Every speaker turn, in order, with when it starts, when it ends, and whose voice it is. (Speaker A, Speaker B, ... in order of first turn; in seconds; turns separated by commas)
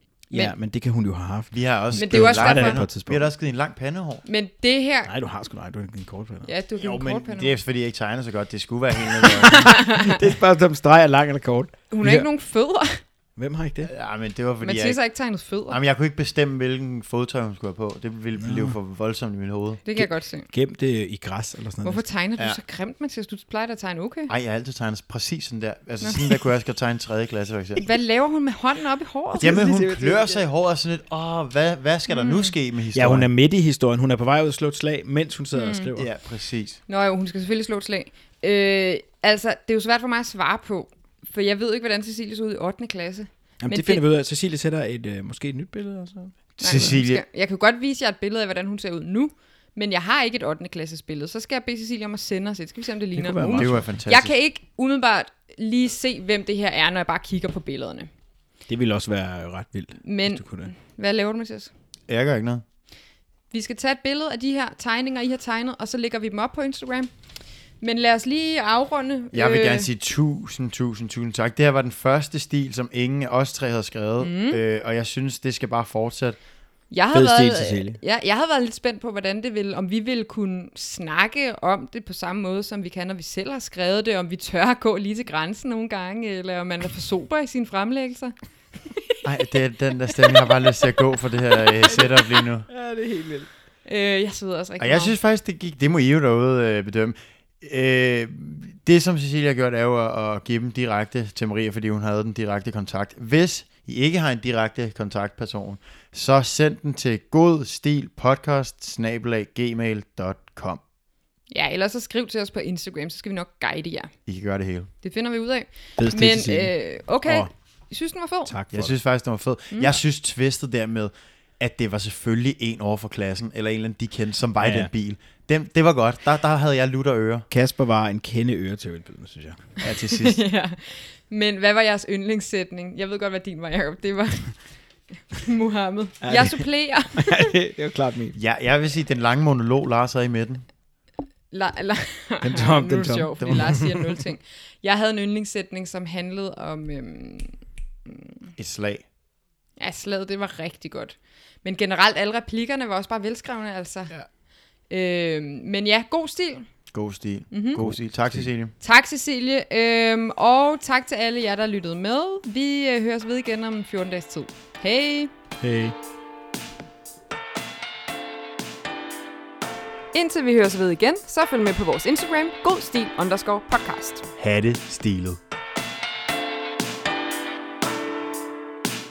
Speaker A: 0.3-3.3, Speaker B: 1.5-4.2, Speaker C: 1.9-2.8, Speaker C: 4.2-5.1, Speaker A: 5.1-6.5, Speaker C: 6.5-7.5, Speaker B: 6.8-9.9, Speaker C: 9.4-10.2, Speaker A: 9.8-12.3, Speaker C: 11.9-13.0, Speaker A: 13.4-13.9, Speaker B: 13.8-15.0, Speaker C: 14.6-15.8, Speaker B: 15.7-19.8, Speaker A: 18.4-18.7, Speaker C: 19.8-20.5, Speaker A: 19.9-22.0, Speaker C: 21.8-24.3, Speaker B: 24.3-27.9, Speaker C: 26.0-26.3, Speaker C: 27.8-29.6, Speaker A: 29.4-30.4, Speaker B: 29.4-33.3, Speaker C: 32.1-32.5, Speaker A: 32.9-36.1, Speaker C: 35.5-35.9, Speaker B: 36.0-36.8, Speaker C: 36.9-44.0, Speaker A: 43.6-47.0, Speaker B: 46.6-47.2, Speaker C: 46.6-58.1, Speaker A: 53.1-53.9, Speaker B: 53.5-54.3, Speaker A: 58.7-60.7, Speaker C: 60.0-61.7, Speaker B: 62.1-62.6, Speaker C: 63.5-67.1, Speaker C: 67.8-69.9, Speaker B: 69.3-76.4, Speaker C: 74.2-74.6, Speaker C: 76.9-88.3, Speaker A: 77.1-78.0, Speaker B: 89.2-92.7, Speaker A: 92.7-93.5, Speaker C: 93.8-95.1, Speaker B: 94.8-110.8, Speaker C: 111.5-114.1, Speaker B: 114.2-114.9, Speaker C: 115.0-118.5, Speaker A: 116.0-117.5, Speaker A: 118.5-118.9, Speaker B: 118.7-127.5, Speaker C: 119.7-120.0, Speaker A: 124.6-124.9, Speaker A: 127.5-129.7, Speaker B: 129.8-130.4, Speaker C: 130.1-134.5, Speaker C: 135.3-137.5, Speaker A: 136.2-138.3, Speaker B: 138.3-140.7, Speaker C: 141.5-148.5, Speaker A: 142.4-143.9, Speaker B: 143.4-143.7, Speaker B: 148.6-149.0, Speaker C: 149.8-154.1, Speaker C: 154.9-156.7, Speaker B: 156.9-158.7, Speaker C: 157.5-157.8, Speaker A: 157.8-158.4, Speaker C: 158.8-165.3, Speaker A: 165.6-165.9, Speaker C: 170.1-174.2, Speaker B: 174.4-175.4